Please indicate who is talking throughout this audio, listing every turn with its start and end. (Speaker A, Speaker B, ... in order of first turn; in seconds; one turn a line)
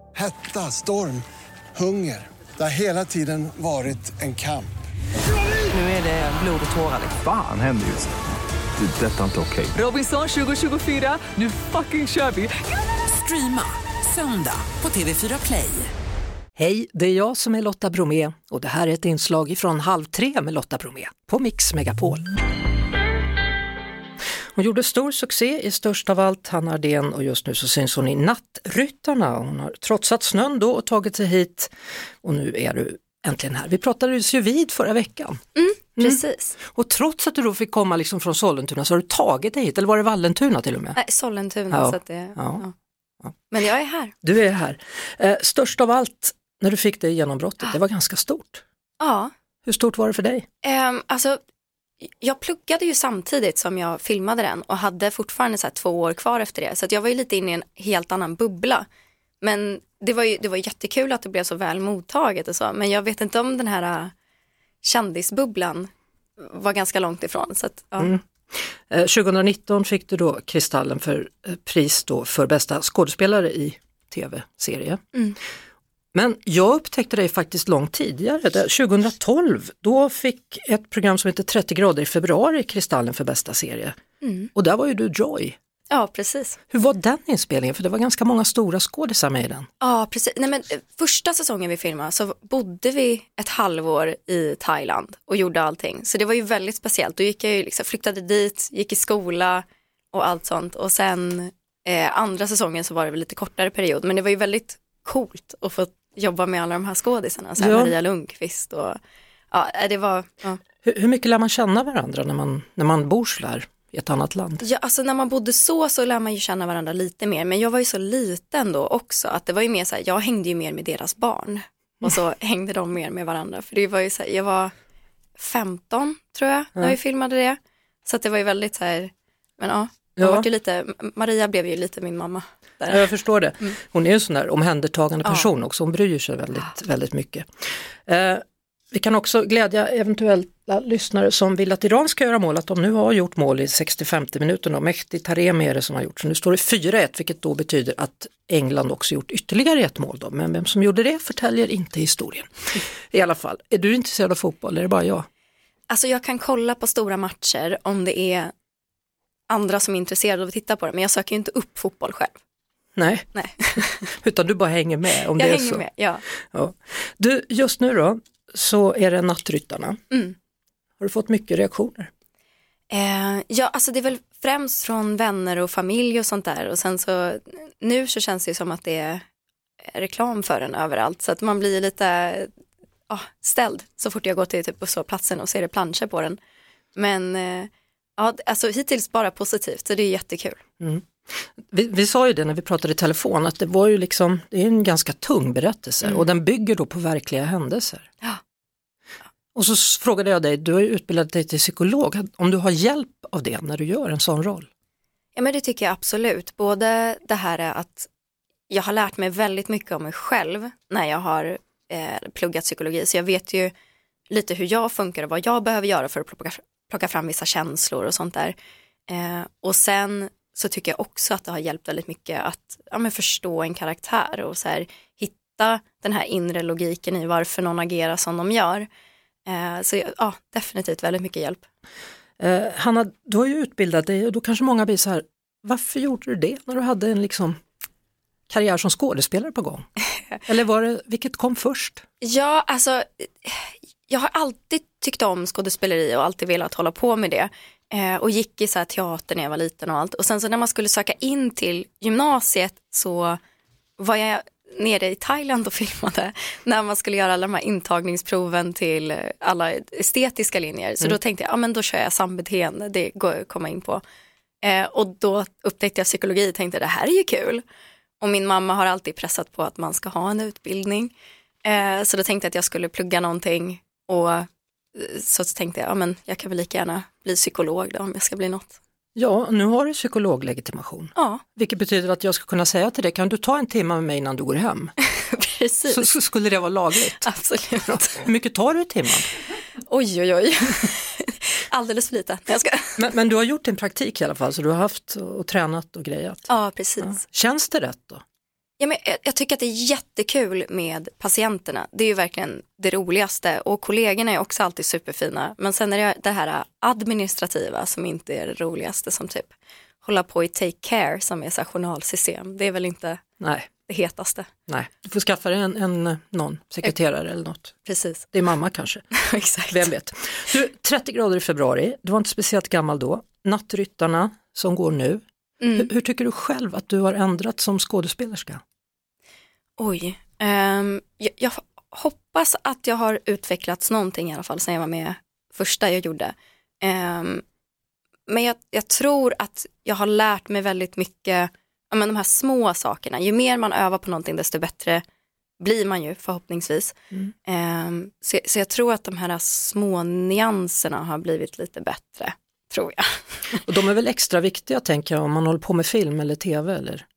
Speaker A: 0.1-4.7
Speaker B: 5.7-7.2
Speaker C: 7.2-8.1
Speaker C: 8.8-9.8
Speaker B: 9.8-15.9
Speaker D: 16.6-22.3
Speaker D: 24.6-31.7
Speaker D: 32.2-35.4
Speaker E: 35.5-36.5
Speaker D: 36.0-41.0
Speaker E: 41.0-42.7
Speaker D: 41.7-42.6
Speaker E: 43.5-44.1
Speaker D: 44.2-48.6
Speaker E: 49.0-49.3
Speaker D: 49.6-50.5
Speaker E: 50.6-51.4
Speaker E: 52.1-58.9
Speaker E: 59.4-64.1
Speaker E: 64.8-68.2
Speaker D: 68.0-75.0
Speaker D: 76.1-84.0
Speaker E: 84.2-84.5
Speaker D: 84.5-85.6
Speaker E: 85.9-86.6
Speaker D: 86.7-89.7
Speaker E: 89.8-109.0
Speaker D: 107.6-108.0
Speaker E: 109.5-110.6
Speaker D: 110.8-114.6
Speaker E: 114.6-124.7
Speaker E: 125.4-133.1
Speaker D: 130.2-130.5
Speaker D: 132.9-137.5
Speaker D: 138.1-155.3
Speaker E: 155.9-158.5
Speaker E: 159.5-162.4
Speaker D: 163.0-163.3
Speaker E: 163.3-164.1
Speaker D: 163.8-165.8
Speaker E: 165.3-166.2
Speaker D: 166.5-170.0
Speaker D: 171.0-172.1
Speaker E: 172.9-179.2
Speaker E: 179.8-182.5
Speaker E: 183.1-186.4
Speaker E: 186.9-190.6
Speaker D: 190.8-198.1
Speaker D: 199.6-204.7
Speaker E: 205.3-208.1
Speaker E: 208.7-213.7
Speaker E: 214.3-218.6
Speaker E: 219.1-228.9
Speaker E: 229.5-231.6
Speaker D: 232.4-237.6
Speaker D: 238.5-239.9
Speaker D: 240.4-242.0
Speaker E: 242.2-253.4
Speaker E: 254.0-264.0
Speaker E: 264.6-267.6
Speaker E: 268.2-271.1
Speaker E: 271.6-278.8
Speaker D: 279.1-284.9
Speaker E: 281.2-281.4
Speaker E: 285.0-286.1
Speaker D: 285.9-287.3
Speaker E: 287.2-288.2
Speaker D: 287.9-289.3
Speaker E: 289.8-293.0
Speaker D: 293.0-298.2
Speaker E: 296.5-297.2
Speaker E: 298.8-313.2
Speaker D: 313.4-313.7
Speaker E: 313.9-314.5
Speaker D: 314.7-317.8
Speaker E: 317.9-318.3
Speaker D: 318.3-319.1
Speaker E: 319.1-319.9
Speaker D: 319.7-325.2
Speaker E: 325.6-325.9
Speaker D: 325.8-328.6
Speaker E: 329.8-337.4
Speaker E: 338.3-345.0
Speaker E: 345.6-353.6
Speaker D: 353.6-357.0